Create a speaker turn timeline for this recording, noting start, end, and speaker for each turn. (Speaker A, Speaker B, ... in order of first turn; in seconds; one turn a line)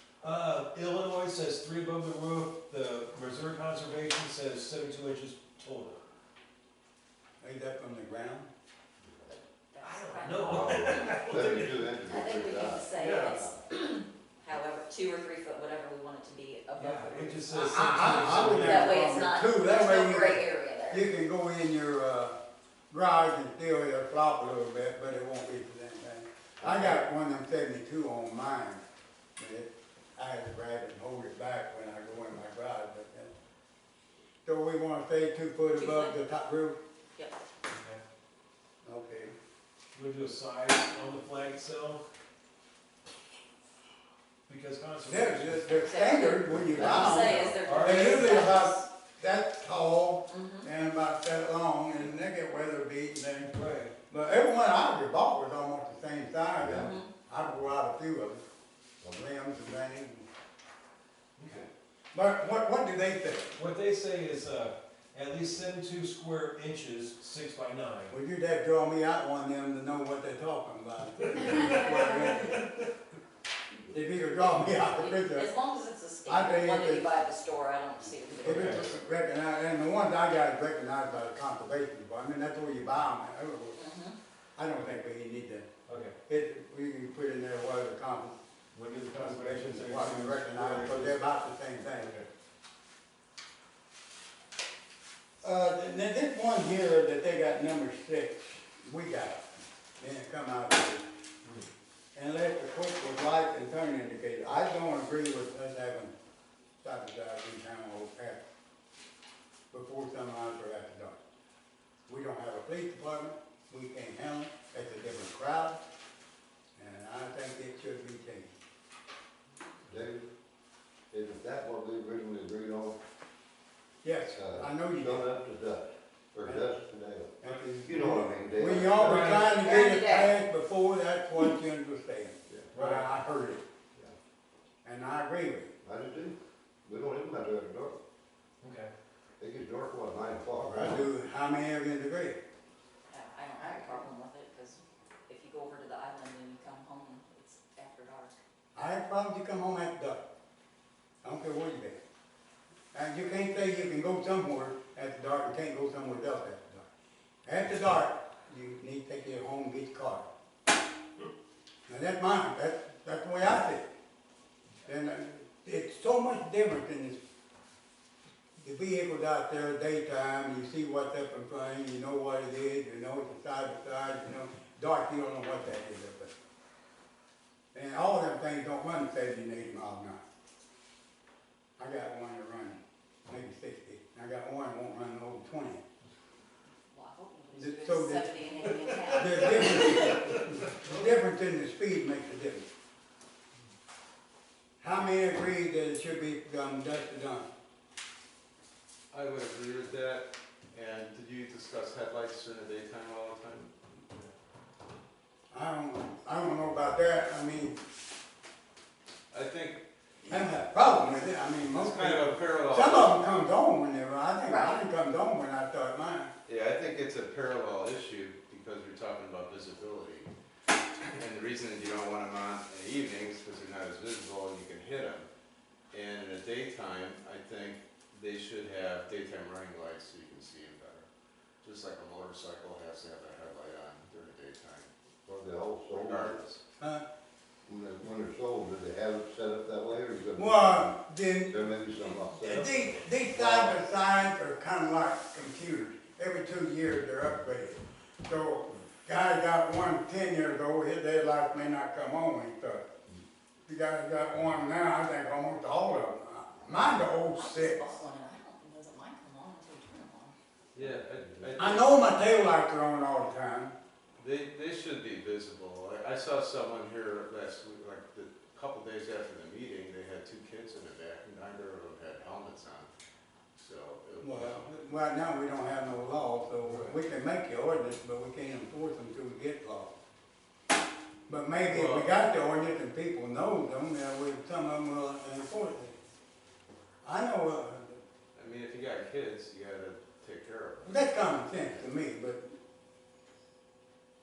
Speaker A: 0.2-6.0
Speaker B: 7.4-8.5
Speaker C: 9.3-11.4
Speaker A: 9.8-11.9
Speaker D: 10.4-13.6
Speaker C: 12.1-21.0
Speaker A: 13.0-13.4
Speaker A: 16.8-19.0
Speaker B: 17.6-22.4
Speaker B: 22.9-28.8
Speaker B: 29.4-33.3
Speaker B: 34.4-36.8
Speaker C: 35.7-36.1
Speaker A: 37.7-38.0
Speaker B: 38.8-39.3
Speaker A: 39.9-42.0
Speaker A: 44.5-45.7
Speaker B: 45.1-53.5
Speaker C: 45.8-48.9
Speaker D: 46.7-47.4
Speaker A: 46.8-48.6
Speaker C: 50.3-50.7
Speaker A: 53.5-53.9
Speaker B: 54.1-58.4
Speaker D: 56.6-57.0
Speaker C: 56.8-57.1
Speaker B: 59.0-60.2
Speaker A: 61.4-61.7
Speaker B: 62.1-63.5
Speaker A: 63.5-68.1
Speaker B: 68.1-72.7
Speaker A: 71.4-72.1
Speaker B: 73.9-75.5
Speaker C: 74.4-79.0
Speaker B: 76.2-77.2
Speaker A: 78.4-78.9
Speaker B: 78.4-83.8
Speaker C: 83.8-84.2
Speaker B: 84.5-85.7
Speaker A: 85.9-86.2
Speaker B: 86.3-88.4
Speaker A: 88.7-91.2
Speaker B: 89.2-92.2
Speaker A: 92.0-92.2
Speaker B: 95.4-99.5
Speaker B: 100.0-101.0
Speaker B: 102.1-106.1
Speaker B: 106.8-108.4
Speaker B: 109.7-111.2
Speaker B: 112.1-115.8
Speaker B: 116.8-118.5
Speaker D: 119.8-120.3
Speaker D: 121.1-123.0
Speaker B: 124.0-125.3
Speaker D: 124.3-129.6
Speaker B: 127.4-133.6
Speaker A: 129.0-129.5
Speaker C: 129.5-130.4
Speaker A: 132.7-133.1
Speaker B: 134.8-135.7
Speaker D: 135.8-138.0
Speaker A: 138.6-138.9
Speaker D: 139.4-141.1
Speaker B: 140.6-142.4
Speaker C: 143.1-148.3
Speaker B: 143.6-144.1
Speaker B: 148.7-150.2
Speaker B: 151.2-152.0
Speaker B: 152.9-156.8
Speaker B: 157.4-160.2
Speaker B: 161.9-163.8
Speaker B: 164.8-167.2
Speaker B: 168.6-176.3
Speaker B: 177.7-180.2
Speaker B: 181.8-185.8
Speaker C: 186.9-190.4
Speaker B: 187.5-188.3
Speaker B: 189.0-192.7
Speaker B: 194.8-197.5
Speaker E: 199.1-204.3
Speaker B: 205.5-207.8
Speaker E: 209.3-209.8
Speaker B: 210.3-216.3
Speaker E: 211.7-213.2
Speaker C: 214.4-214.8
Speaker E: 216.4-220.3
Speaker E: 221.0-225.3
Speaker E: 225.9-231.1
Speaker E: 231.6-234.9
Speaker D: 235.2-236.4
Speaker E: 236.0-236.6
Speaker B: 236.8-237.0
Speaker D: 237.6-240.9
Speaker B: 240.3-241.6
Speaker D: 241.5-243.8
Speaker B: 242.4-252.8
Speaker B: 253.7-258.0
Speaker C: 257.3-260.3
Speaker E: 260.7-262.2
Speaker D: 260.8-261.5
Speaker B: 261.6-263.7
Speaker E: 264.2-272.9
Speaker E: 273.5-274.7
Speaker B: 274.2-279.9
Speaker B: 281.3-286.0
Speaker E: 281.7-282.1
Speaker B: 287.0-288.0
Speaker E: 288.3-291.0
Speaker B: 290.8-292.4